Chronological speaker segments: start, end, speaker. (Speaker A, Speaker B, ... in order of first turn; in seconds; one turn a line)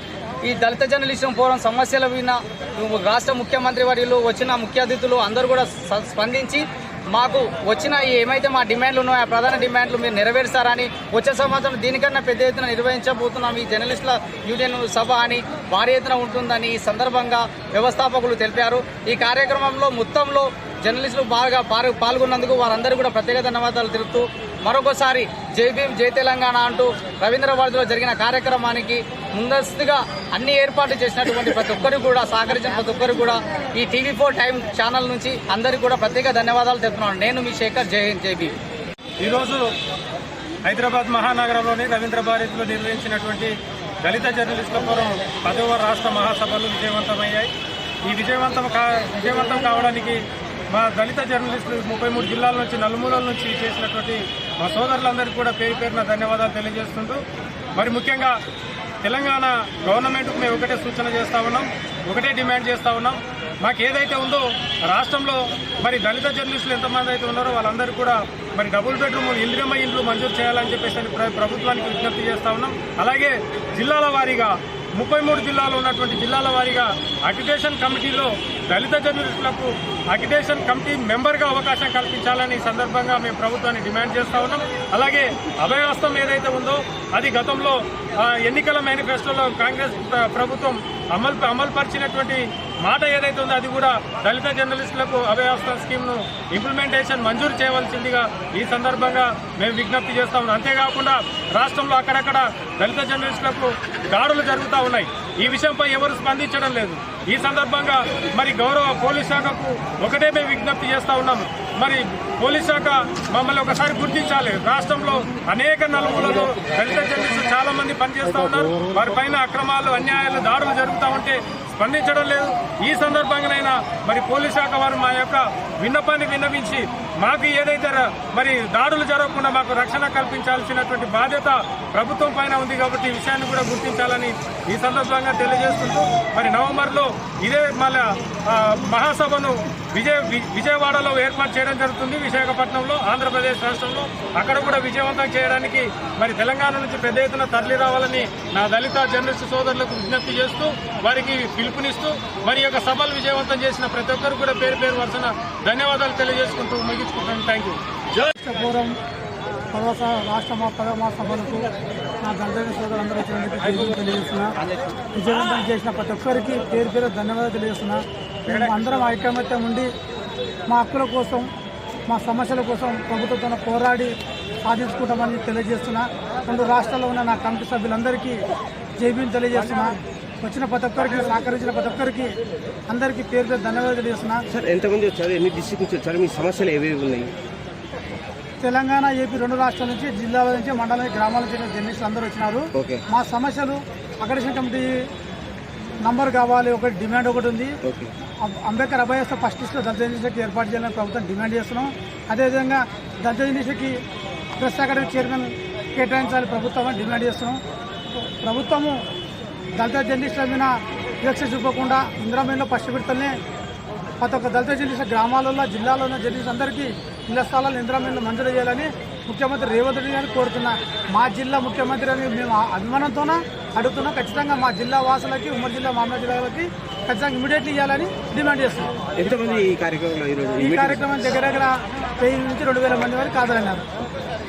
Speaker A: 0.4-38.5
Speaker B: 39.2-39.7
Speaker B: 40.6-47.5
Speaker B: 48.0-57.2
Speaker B: 57.8-58.4
Speaker B: 59.0-157.8
Speaker C: 158.2-158.9
Speaker C: 159.7-161.7
Speaker C: 162.2-164.5
Speaker C: 165.1-169.9
Speaker C: 170.7-171.5
Speaker C: 172.1-178.4
Speaker C: 179.0-182.3
Speaker C: 182.9-184.4
Speaker D: 184.5-187.3
Speaker C: 188.6-195.1
Speaker D: 192.8-193.0
Speaker C: 196.0-197.8
Speaker D: 197.8-198.1
Speaker C: 198.4-204.0
Speaker C: 204.6-207.6
Speaker C: 208.1-209.0
Speaker C: 209.8-213.4
Speaker C: 214.2-228.9
Speaker D: 229.2-231.0
Speaker C: 230.6-233.8